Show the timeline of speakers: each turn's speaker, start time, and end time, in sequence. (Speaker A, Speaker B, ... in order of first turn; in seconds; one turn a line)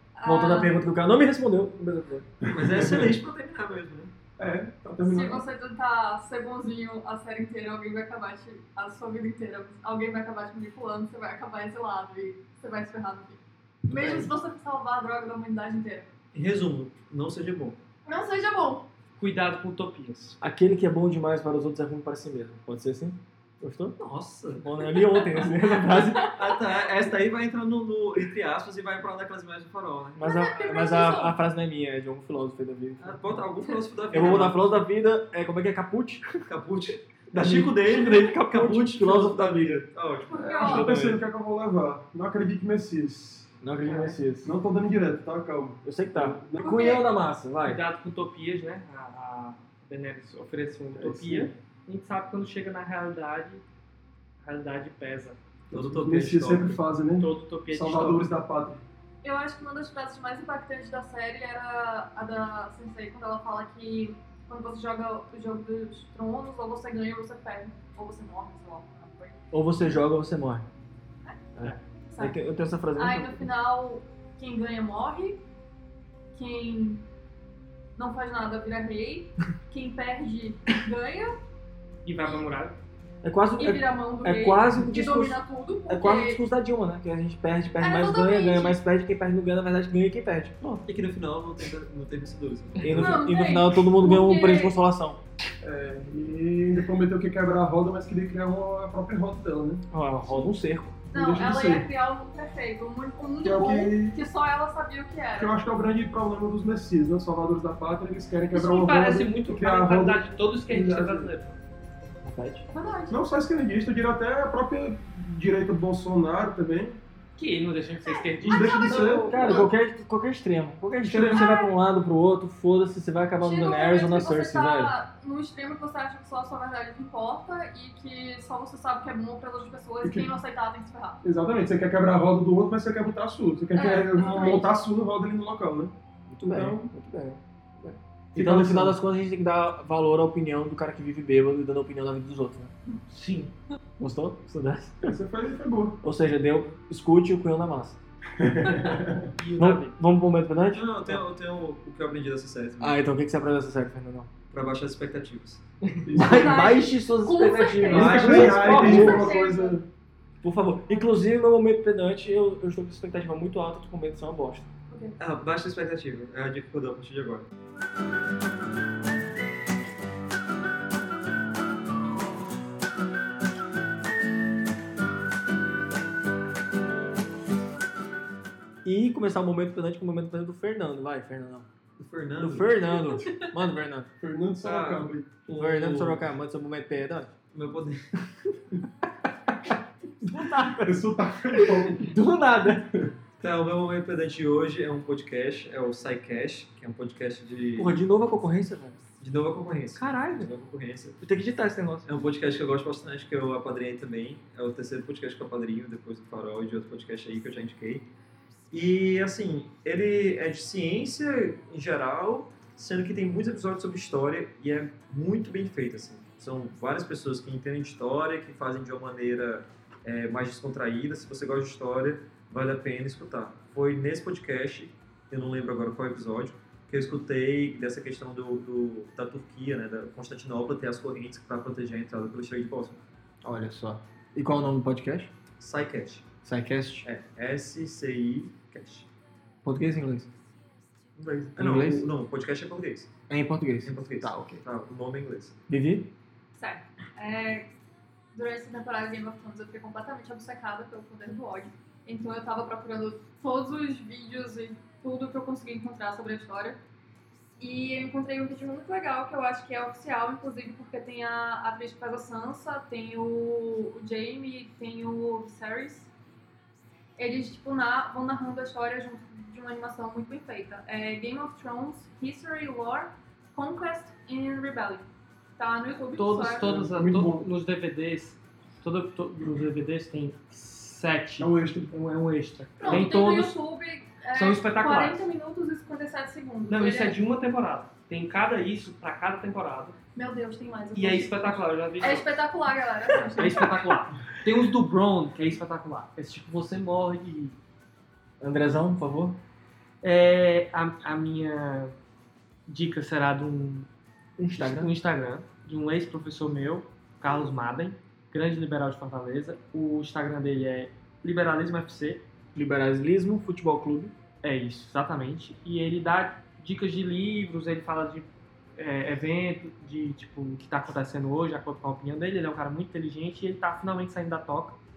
Speaker A: 0.2-0.8
Speaker B: 0.2-2.3
Speaker C: 2.4-3.1
Speaker D: 2.5-4.1
Speaker C: 4.4-5.5
Speaker A: 5.0-16.1
Speaker B: 13.9-14.3
Speaker D: 16.3-17.8
Speaker A: 18.1-18.9
Speaker E: 19.2-20.4
Speaker B: 20.4-24.0
Speaker D: 24.0-24.7
Speaker B: 24.6-26.4
Speaker D: 26.3-30.3
Speaker B: 30.2-33.5
Speaker A: 30.2-31.4
Speaker D: 33.0-34.6
Speaker B: 34.1-36.3
Speaker D: 36.5-40.5
Speaker B: 37.3-39.9
Speaker A: 40.3-40.9
Speaker C: 40.3-43.5
Speaker B: 40.6-41.2
Speaker B: 43.6-44.5
Speaker E: 43.9-44.1
Speaker C: 44.4-46.6
Speaker B: 45.8-47.8
Speaker A: 46.6-47.1
Speaker E: 47.6-53.6
Speaker C: 51.0-51.5
Speaker E: 54.4-55.4
Speaker D: 55.7-56.8
Speaker C: 55.7-58.8
Speaker E: 57.2-58.3
Speaker A: 59.2-69.4
Speaker B: 69.5-70.7
Speaker B: 71.6-73.5
Speaker A: 72.1-72.4
Speaker A: 73.0-75.4
Speaker A: 76.3-77.0
Speaker A: 78.0-81.4
Speaker E: 82.0-82.8
Speaker B: 83.2-90.8
Speaker A: 83.6-86.4
Speaker A: 87.8-88.8
Speaker D: 90.8-93.2
Speaker B: 92.8-95.2
Speaker A: 92.9-94.8
Speaker C: 95.6-99.8
Speaker E: 99.9-100.5
Speaker B: 100.0-101.0
Speaker A: 101.1-105.5
Speaker C: 101.1-101.9
Speaker C: 103.4-104.2
Speaker C: 105.4-111.3
Speaker E: 108.5-111.6
Speaker B: 112.2-112.7
Speaker A: 112.7-113.2
Speaker C: 113.1-117.0
Speaker E: 117.4-119.3
Speaker A: 118.0-119.7
Speaker C: 118.4-119.7
Speaker B: 119.2-124.9
Speaker C: 121.0-121.5
Speaker A: 121.2-121.7
Speaker A: 123.4-131.2
Speaker C: 130.0-130.3
Speaker C: 131.2-136.9
Speaker A: 133.7-134.8
Speaker B: 136.3-142.7
Speaker C: 138.3-139.0
Speaker E: 143.1-143.5
Speaker B: 144.0-145.1
Speaker C: 145.1-146.0
Speaker B: 146.0-148.0
Speaker C: 148.4-149.3
Speaker E: 149.4-149.9
Speaker B: 149.6-151.2
Speaker D: 150.7-153.0
Speaker B: 152.8-154.3
Speaker D: 154.5-155.6
Speaker B: 156.0-159.3
Speaker C: 156.1-156.7
Speaker A: 156.2-159.8
Speaker C: 157.8-159.8
Speaker D: 157.9-158.8
Speaker B: 160.4-164.7
Speaker A: 164.9-165.2
Speaker D: 165.2-167.5
Speaker B: 178.8-181.7
Speaker D: 182.0-183.3
Speaker B: 182.4-184.1
Speaker C: 184.2-185.3
Speaker D: 184.6-186.3
Speaker B: 185.5-187.3
Speaker D: 187.5-188.0
Speaker B: 190.3-191.0
Speaker C: 190.7-192.1
Speaker B: 191.5-192.9
Speaker D: 193.4-198.0
Speaker B: 197.8-199.0
Speaker D: 199.2-201.2
Speaker E: 200.0-200.5
Speaker B: 201.2-202.1
Speaker D: 202.1-208.1
Speaker D: 208.7-233.0
Speaker B: 233.4-235.3
Speaker D: 235.6-236.3
Speaker B: 236.4-237.1
Speaker D: 237.0-239.1
Speaker B: 239.7-240.3
Speaker D: 241.2-243.1
Speaker B: 241.6-242.1
Speaker B: 243.3-244.6
Speaker D: 243.8-245.6
Speaker B: 245.7-246.1
Speaker A: 246.6-247.7
Speaker A: 248.3-256.8
Speaker A: 257.6-266.1
Speaker A: 267.2-276.7
Speaker E: 276.2-283.6
Speaker C: 276.6-277.5
Speaker C: 281.4-281.9
Speaker A: 282.8-287.2
Speaker E: 284.4-285.2
Speaker E: 286.7-290.0
Speaker A: 290.2-293.7
Speaker E: 290.9-292.4
Speaker E: 293.1-297.6
Speaker B: 293.4-293.7
Speaker B: 298.4-299.4
Speaker E: 300.0-301.9
Speaker E: 302.7-303.9
Speaker B: 304.4-304.9
Speaker E: 304.6-312.2
Speaker B: 312.6-314.1
Speaker E: 314.4-324.8